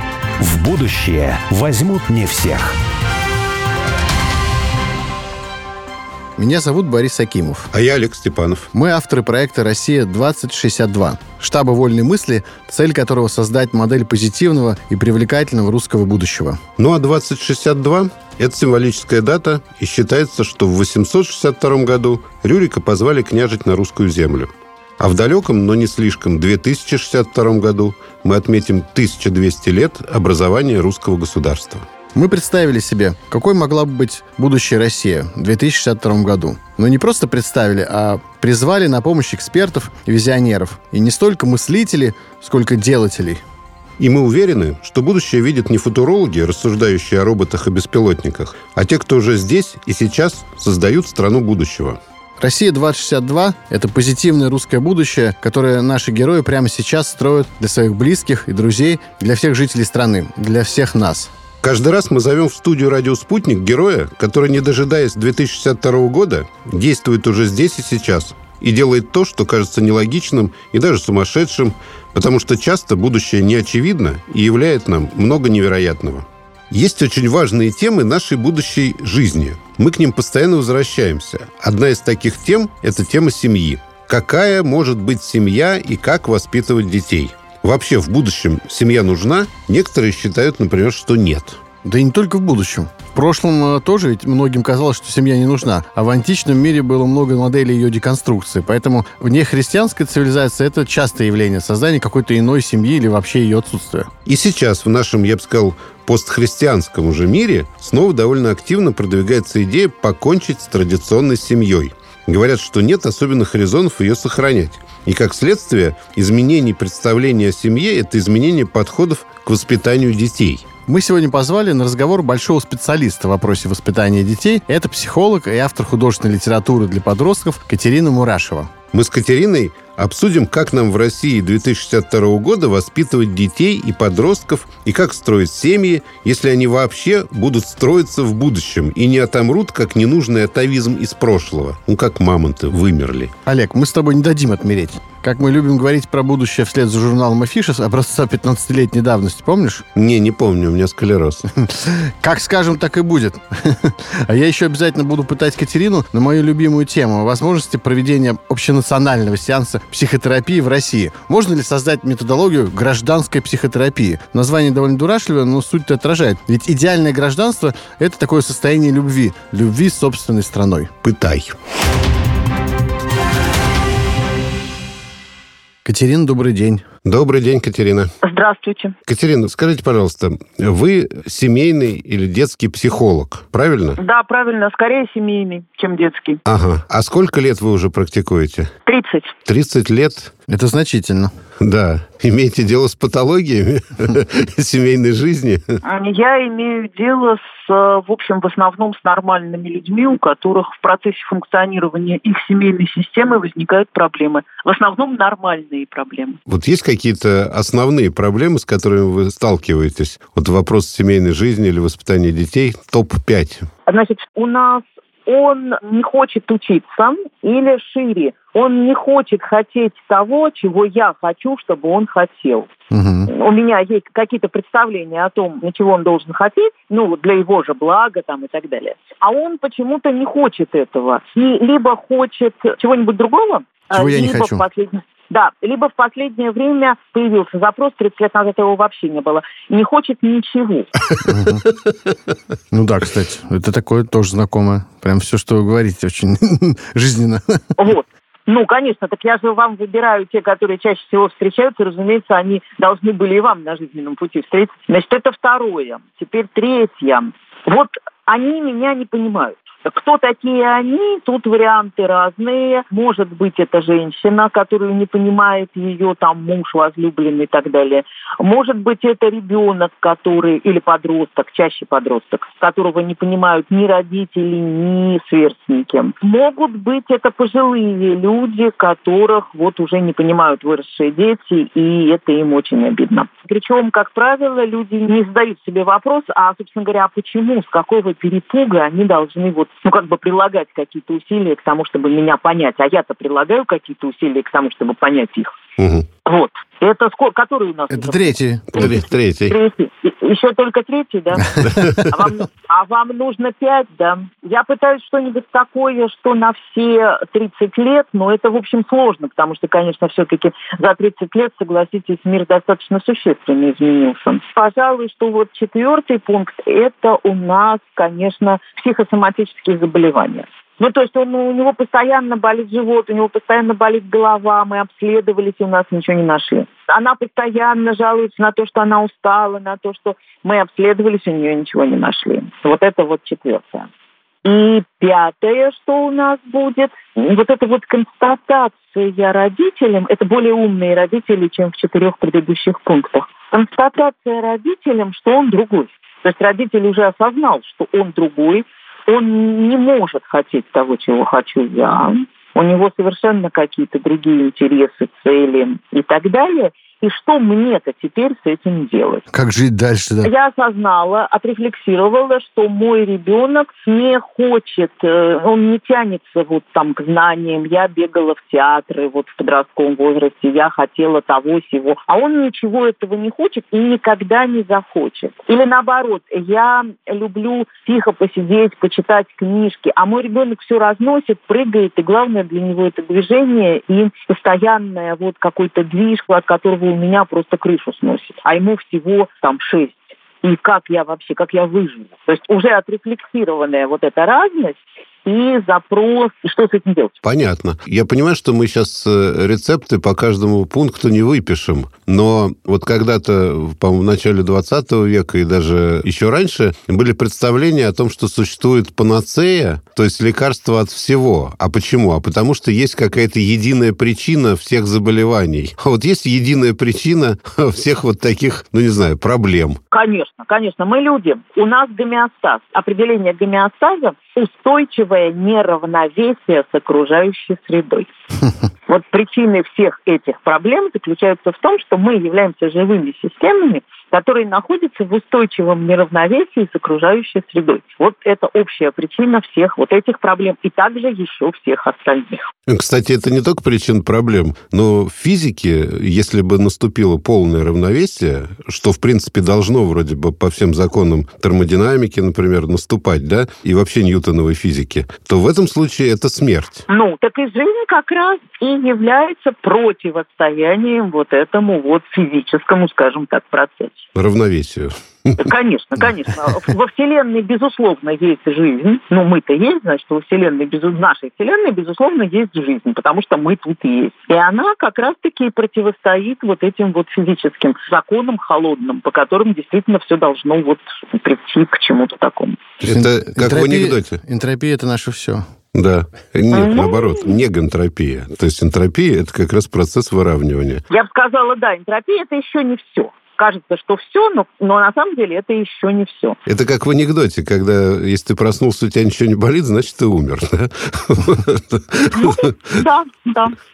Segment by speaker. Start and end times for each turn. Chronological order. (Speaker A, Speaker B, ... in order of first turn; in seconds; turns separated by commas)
Speaker A: 0.4-2.8, Speaker B: 6.4-7.7, Speaker C: 7.7-8.7, Speaker B: 8.7-16.6, Speaker C: 16.8-31.9, Speaker B: 32.1-43.4, Speaker C: 44.0-52.0, Speaker B: 52.4-61.3, Speaker C: 61.6-91.6, Speaker B: 91.8-104.1, Speaker C: 104.3-120.7, Speaker B: 120.9-128.7, Speaker C: 128.9-143.3, Speaker B: 143.5-149.8, Speaker C: 150.0-151.4, Speaker B: 151.6-170.9, Speaker C: 171.0-171.6, Speaker B: 175.8-176.9, Speaker C: 177.1-178.1, Speaker D: 178.2-178.9, Speaker C: 179.1-184.0, Speaker D: 184.0-186.4, Speaker C: 186.5-188.7, Speaker D: 188.9-189.3, Speaker C: 189.5-190.3, Speaker B: 190.5-191.3, Speaker C: 191.6-195.8, Speaker D: 195.8-206.4, Speaker C: 206.5-213.7, Speaker D: 213.9-222.7, Speaker B: 222.9-223.3, Speaker D: 223.3-240.9, Speaker B: 233.9-234.7, Speaker B: 241.2-241.7, Speaker B: 242.7-247.6, Speaker D: 247.8-295.5, Speaker C: 295.8-296.1, Speaker D: 296.2-333.9, Speaker B: 297.9-299.0, Speaker C: 298.8-299.6, Speaker C: 301.7-302.1, Speaker D: 334.4-359.2, Speaker B: 359.3-360.3, Speaker D: 360.2-397.2, Speaker C: 397.2-419.8, Speaker D: 419.9-428.1, Speaker D: 428.9-442.5, Speaker C: 442.7-456.9, Speaker D: 456.9-464.1, Speaker C: 464.2-465.4, Speaker D: 465.4-482.6, Speaker C: 482.8-484.2, Speaker B: 482.9-485.5, Speaker C: 485.8-490.8, Speaker D: 486.5-487.4, Speaker D: 490.9-496.4, Speaker C: 496.5-502.8, Speaker D: 502.1-503.6